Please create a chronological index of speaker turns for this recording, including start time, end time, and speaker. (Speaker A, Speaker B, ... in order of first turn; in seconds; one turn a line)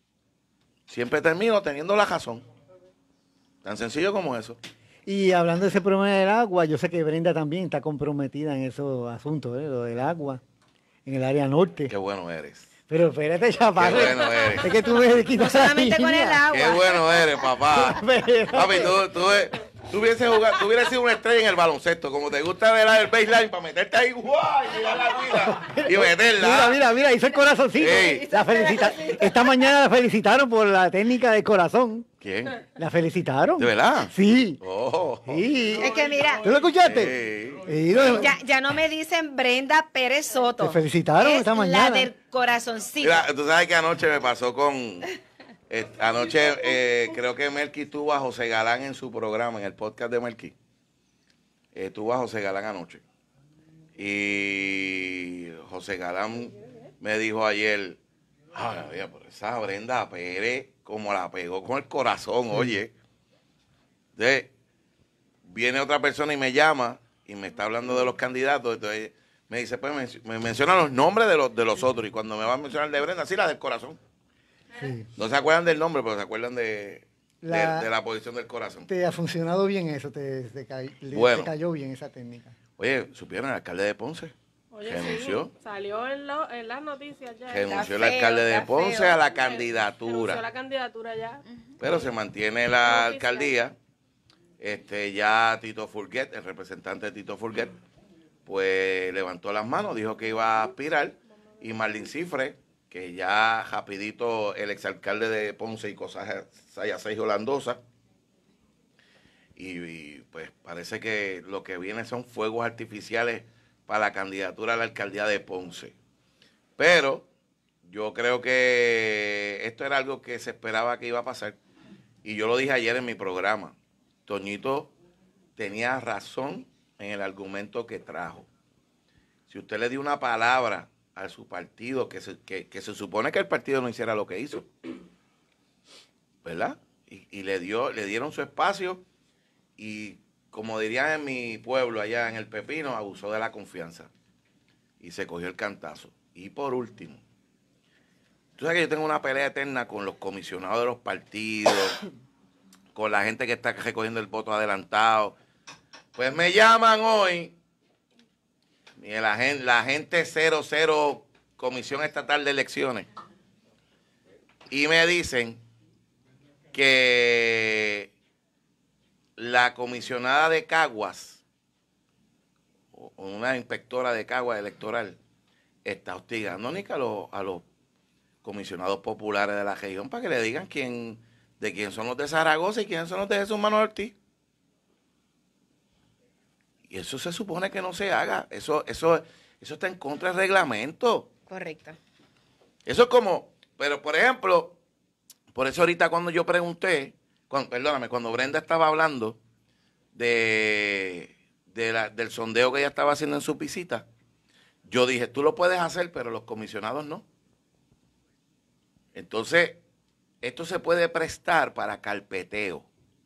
Speaker A: 0.9-2.5
Speaker A: 3.6-4.6
Speaker B: 5.1-10.4
Speaker B: 11.1-11.9
Speaker A: 11.9-12.7
Speaker B: 12.9-16.4
Speaker A: 13.8-14.7
Speaker C: 15.4-17.2
Speaker A: 16.5-26.8
Speaker B: 17.7-19.0
Speaker B: 25.4-32.1
Speaker A: 27.8-28.3
Speaker C: 28.3-29.2
Speaker A: 32.2-32.6
Speaker B: 32.8-34.6
Speaker A: 33.6-35.5
Speaker B: 35.3-38.3
Speaker C: 35.8-36.4
Speaker A: 36.8-38.3
Speaker C: 38.1-43.3
Speaker B: 40.6-42.1
Speaker A: 43.0-45.1
Speaker A: 45.7-50.5
Speaker A: 51.7-53.0
Speaker A: 54.0-58.0
Speaker A: 58.5-62.9
Speaker A: 64.2-64.5
Speaker A: 65.5-74.0
Speaker B: 74.7-75.1
Speaker A: 75.2-78.9
Speaker B: 77.4-77.9
Speaker B: 78.9-82.5
Speaker A: 81.1-81.5
Speaker A: 82.8-85.5
Speaker D: 84.7-87.8
Speaker A: 87.5-90.4
Speaker C: 87.7-89.2
Speaker D: 89.3-91.4
Speaker A: 91.8-93.8
Speaker D: 92.8-93.5
Speaker A: 94.6-97.8
Speaker A: 98.5-107.8
Speaker A: 109.6-116.0
Speaker A: 116.8-117.3
Speaker A: 117.8-121.6
Speaker A: 122.2-124.9
Speaker A: 125.6-128.5
Speaker A: 129.5-134.7
Speaker A: 136.4-139.0
Speaker A: 139.8-144.1
Speaker A: 145.0-147.2
Speaker A: 148.6-152.0
Speaker A: 152.9-155.4
Speaker A: 156.2-157.6
Speaker A: 159.0-163.1
Speaker A: 164.7-165.6
Speaker A: 166.7-168.1
Speaker A: 169.4-171.4
Speaker A: 172.9-175.2
Speaker A: 175.8-177.7
Speaker A: 178.4-184.2
Speaker A: 186.9-191.3
Speaker C: 191.5-192.0
Speaker A: 192.8-194.8
Speaker A: 195.5-199.4
Speaker A: 200.2-204.1
Speaker A: 204.9-207.2
Speaker A: 209.1-209.8
Speaker A: 210.4-212.9